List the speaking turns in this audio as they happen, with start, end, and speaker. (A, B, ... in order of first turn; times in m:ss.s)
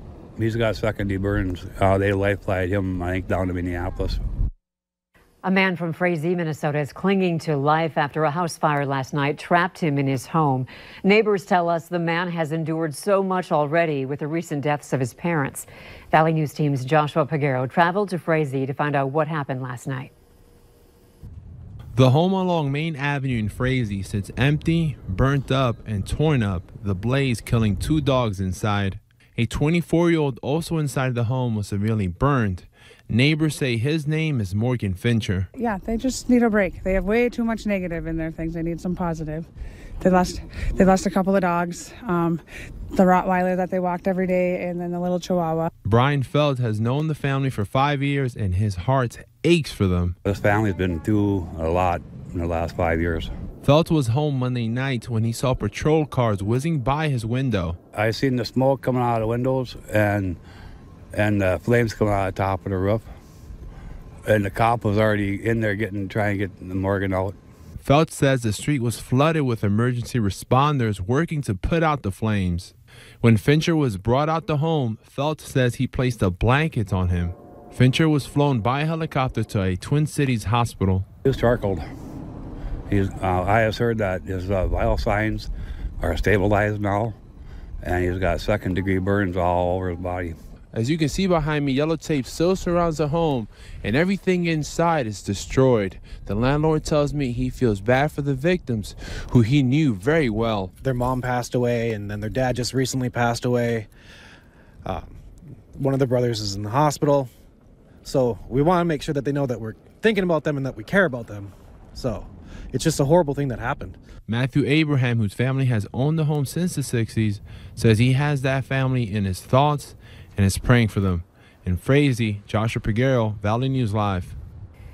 0:00.4-0:04.2 A
0:05.4-0:20.1 B
0:21.9-0:35.5 C
0:35.6-0:39.5 D
0:40.0-0:45.7 D
0:45.8-0:50.2 C
0:50.2-0:53.3 A
0:53.6-0:57.8 C
0:58.0-1:00.4 A
1:01.1-1:03.1 A
1:04.2-1:07.3 A
1:07.8-1:21.1 C
1:21.2-1:21.8 A
1:22.9-1:25.5 A
1:26.0-1:27.2 A
1:27.8-1:30.3 A
1:30.7-1:40.7 C
1:40.8-1:43.9 E
1:44.8-1:45.1 E
1:45.8-1:47.3 E
1:48.0-1:54.0 E
1:54.3-2:04.4 C